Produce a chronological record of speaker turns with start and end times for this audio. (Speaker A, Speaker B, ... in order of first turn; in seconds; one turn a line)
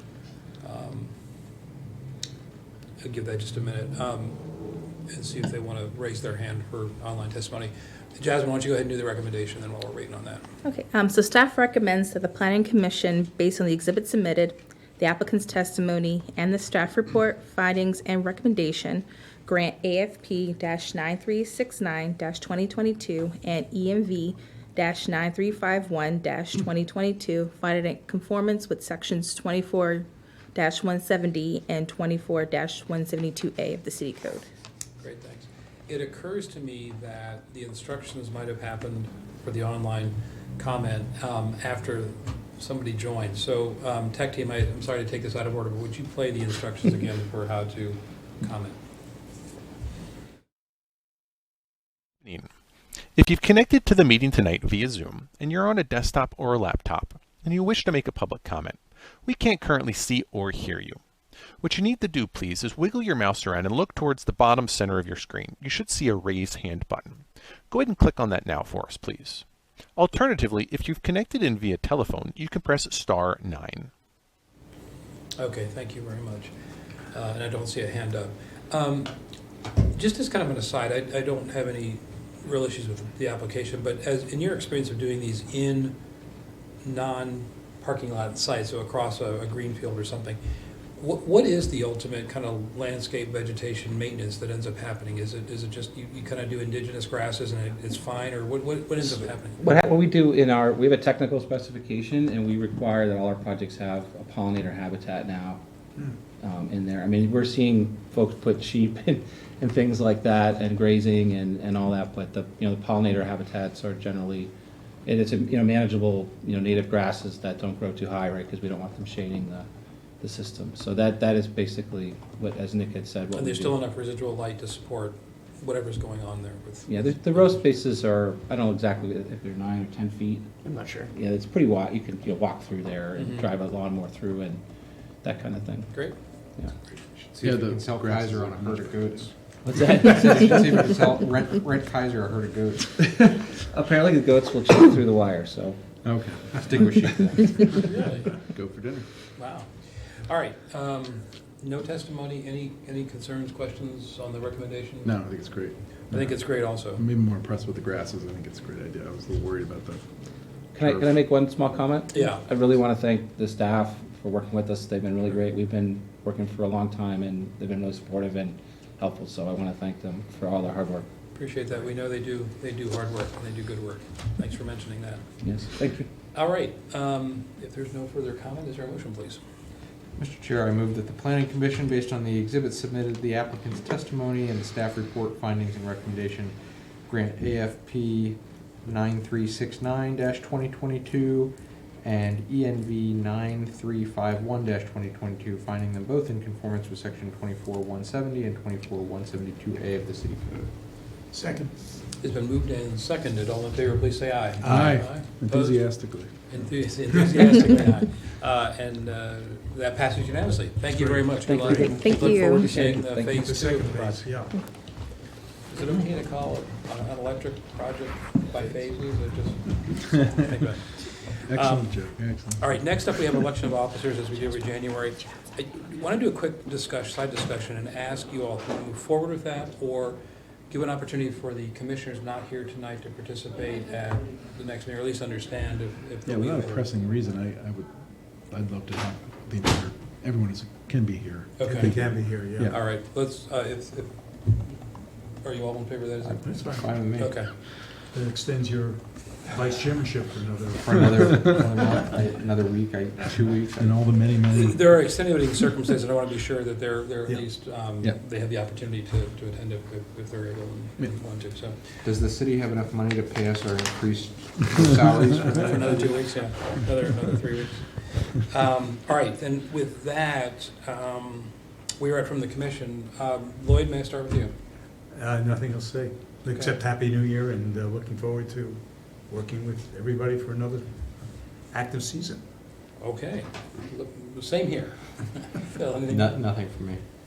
Speaker A: 0.6-1.1
Speaker A: 3.0-4.4
Speaker A: 5.1-10.4
Speaker B: 10.6-34.5
Speaker A: 35.0-48.8
Speaker C: 53.1-61.0
Speaker C: 61.6-69.4
Speaker C: 70.0-73.9
Speaker A: 75.4-76.5
Speaker A: 77.1-79.1
Speaker A: 79.9-86.0
Speaker A: 86.8-90.4
Speaker A: 91.0-99.6
Speaker D: 99.6-105.6
Speaker D: 106.4-114.5
Speaker D: 115.0-119.7
Speaker D: 120.2-123.8
Speaker A: 123.3-127.6
Speaker D: 126.9-134.6
Speaker A: 133.2-133.5
Speaker D: 135.2-136.0
Speaker E: 136.9-142.9
Speaker F: 137.4-139.2
Speaker D: 139.6-140.8
Speaker D: 143.0-145.8
Speaker F: 146.0-147.3
Speaker E: 146.6-147.8
Speaker A: 147.8-148.3
Speaker F: 148.2-149.1
Speaker A: 149.3-155.1
Speaker F: 155.0-160.0
Speaker A: 156.1-157.0
Speaker D: 160.7-171.1
Speaker F: 160.8-161.1
Speaker A: 162.1-162.4
Speaker A: 171.3-175.3
Speaker D: 175.4-176.1
Speaker A: 176.3-179.4
Speaker E: 180.1-186.5
Speaker E: 187.1-200.7
Speaker G: 201.3-201.7
Speaker A: 202.2-214.2
Speaker G: 204.6-205.2
Speaker F: 204.6-206.4
Speaker G: 206.6-207.3
Speaker G: 210.9-211.8
Speaker D: 211.4-213.4
Speaker B: 211.7-212.7
Speaker G: 213.3-214.6
Speaker A: 215.7-236.9
Speaker F: 221.4-223.1
Speaker F: 236.2-242.8
Speaker A: 241.6-244.7
Speaker G: 241.6-242.7
Speaker A: 245.4-246.5
Speaker E: 246.2-247.5
Speaker G: 246.4-251.9
Speaker A: 247.2-247.5
Speaker E: 250.8-254.0
Speaker F: 251.2-251.5
Speaker F: 253.8-254.9
Speaker A: 254.5-261.8
Speaker G: 257.2-257.9
Speaker E: 262.0-266.4
Speaker A: 265.4-274.5
Speaker G: 275.1-282.4
Speaker A: 276.5-276.7
Speaker A: 283.0-286.4
Speaker E: 286.1-287.0